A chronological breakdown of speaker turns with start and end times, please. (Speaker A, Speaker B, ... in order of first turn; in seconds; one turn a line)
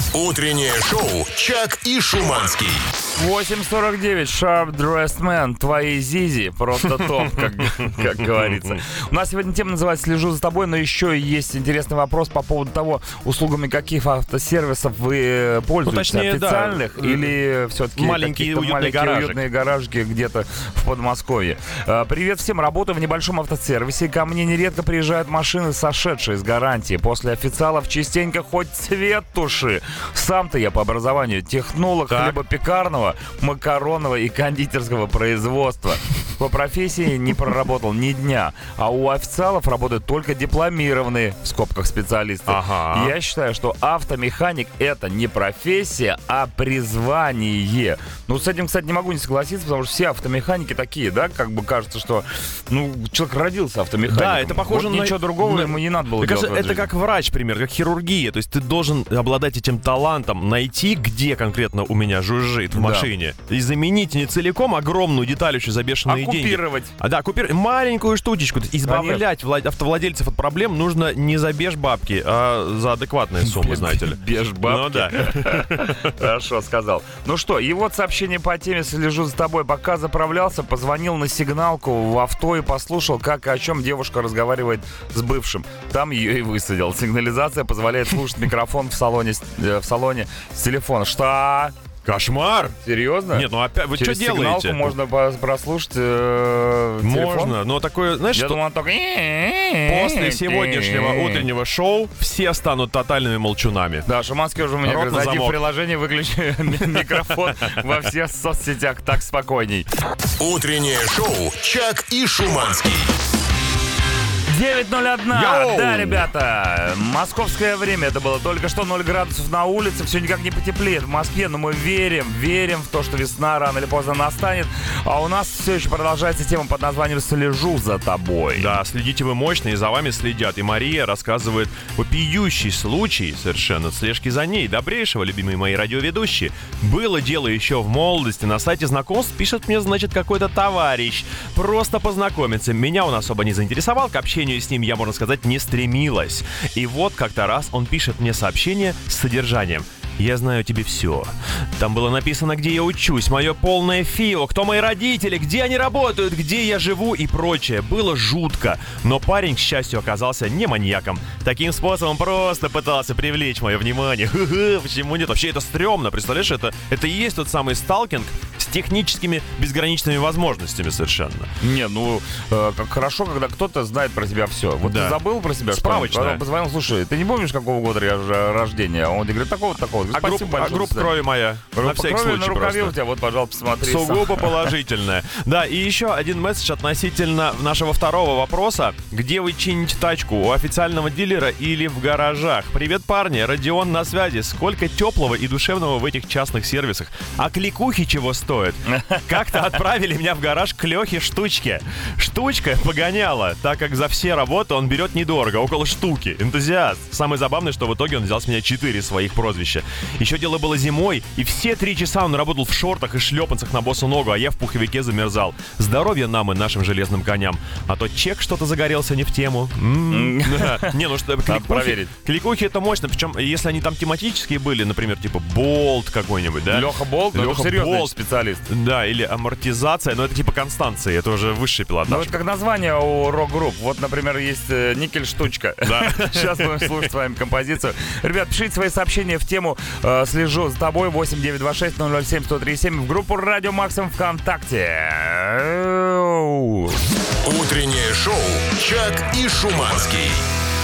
Speaker A: 0.1-3.0
Speaker B: 3.1-56.9
Speaker C: 7.2-8.7
Speaker C: 15.8-17.4
Speaker C: 17.9-19.4
Speaker C: 32.1-32.4
Speaker C: 42.5-43.1
Speaker C: 54.1-76.2
Speaker B: 62.7-63.1
Speaker B: 66.0-66.9
Speaker B: 68.8-69.2
Speaker B: 73.4-91.7
Speaker C: 92.0-92.7
Speaker B: 92.8-97.5
Speaker C: 93.3-94.9
Speaker C: 97.0-98.6
Speaker B: 98.3-101.5
Speaker C: 99.8-104.1
Speaker B: 104.0-109.9
Speaker C: 104.8-105.6
Speaker A: 110.4-113.1
Speaker B: 114.5-128.7
Speaker C: 115.3-116.2
Speaker C: 128.6-171.5
Speaker B: 171.6-181.2
Speaker C: 174.8-176.4
Speaker C: 180.1-183.0
Speaker B: 181.7-184.6
Speaker C: 183.8-232.4
Speaker B: 198.9-199.7
Speaker B: 220.1-222.1
Speaker B: 226.7-228.7
Speaker B: 232.1-247.0
Speaker C: 235.8-237.1
Speaker A: 247.4-250.4